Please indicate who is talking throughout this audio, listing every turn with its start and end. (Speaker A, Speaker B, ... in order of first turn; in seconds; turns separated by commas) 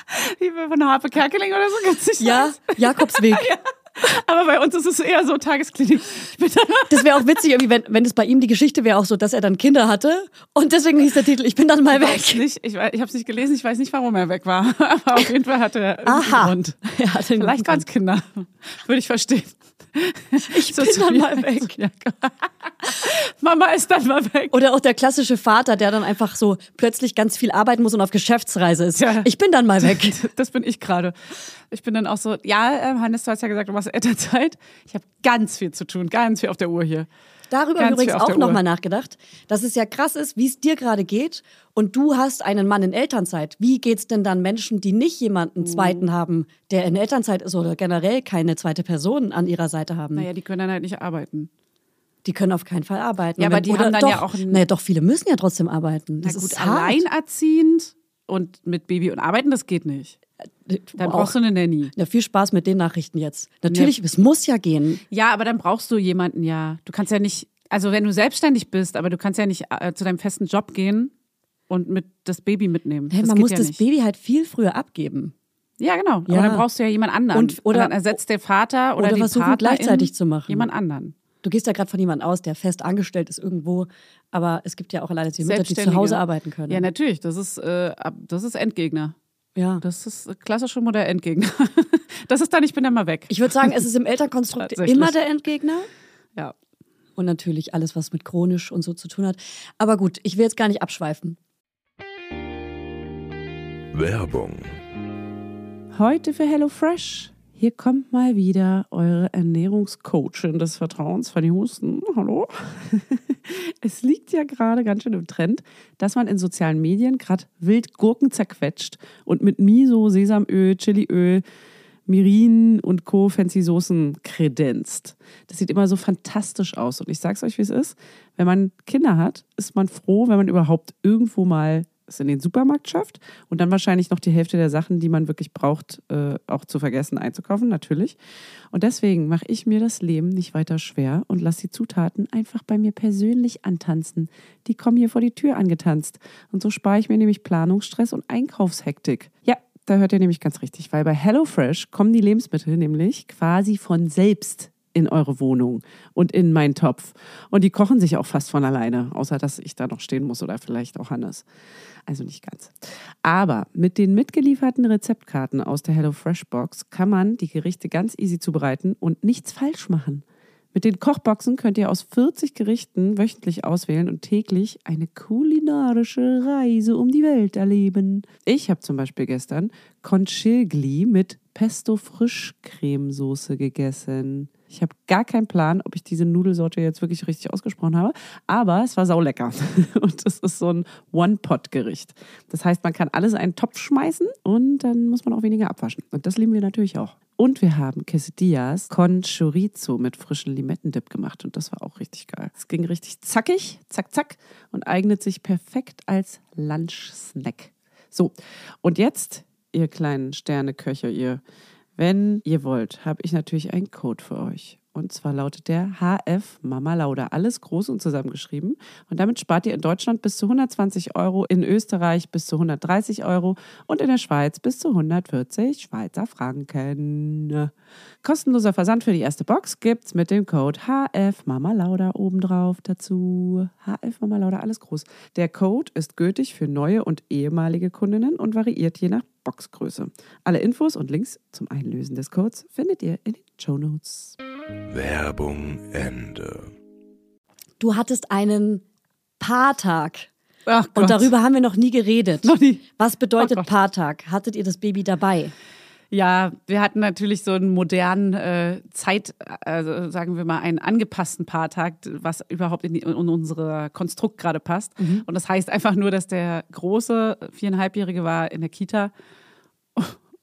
Speaker A: 0.1-7.2, Speaker B: 2.2-3.5, Speaker B: 6.9-12.4, Speaker A: 11.9-24.6, Speaker B: 16.0-17.8, Speaker B: 20.4-21.8, Speaker B: 24.5-30.1, Speaker A: 28.9-37.1, Speaker B: 37.5-50.3, Speaker A: 37.8-38.6, Speaker A: 45.6-46.0, Speaker A: 50.1-51.5, Speaker B: 52.2-57.0, Speaker A: 53.4-54.6, Speaker A: 56.2-60.2, Speaker B: 60.6-61.4, Speaker A: 61.0-61.9, Speaker B: 61.9-65.0, Speaker A: 63.6-63.9, Speaker A: 65.1-71.1, Speaker A: 71.7-73.8, Speaker B: 73.1-75.3, Speaker A: 75.8-81.1, Speaker B: 76.3-76.6, Speaker B: 77.3-78.2, Speaker B: 79.0-80.7, Speaker B: 81.4-86.9, Speaker A: 85.4-89.1, Speaker B: 89.5-89.8, Speaker A: 89.8-93.8, Speaker B: 93.3-95.9, Speaker A: 94.6-95.1, Speaker B: 97.2-101.4, Speaker C: 103.9-104.8, Speaker A: 105.9-121.4, Speaker A: 122.1-138.2, Speaker A: 138.7-161.4, Speaker A: 162.1-211.4, Speaker A: 212.0-227.7, Speaker A: 228.2-244.3, Speaker C: 244.9-246.7, Speaker B: 247.8-248.8, Speaker B: 249.4-250.3, Speaker A: 250.7-251.3, Speaker B: 250.9-255.5, Speaker A: 252.4-252.8, Speaker A: 253.4-253.7, Speaker A: 256.1-269.1, Speaker B: 265.0-265.2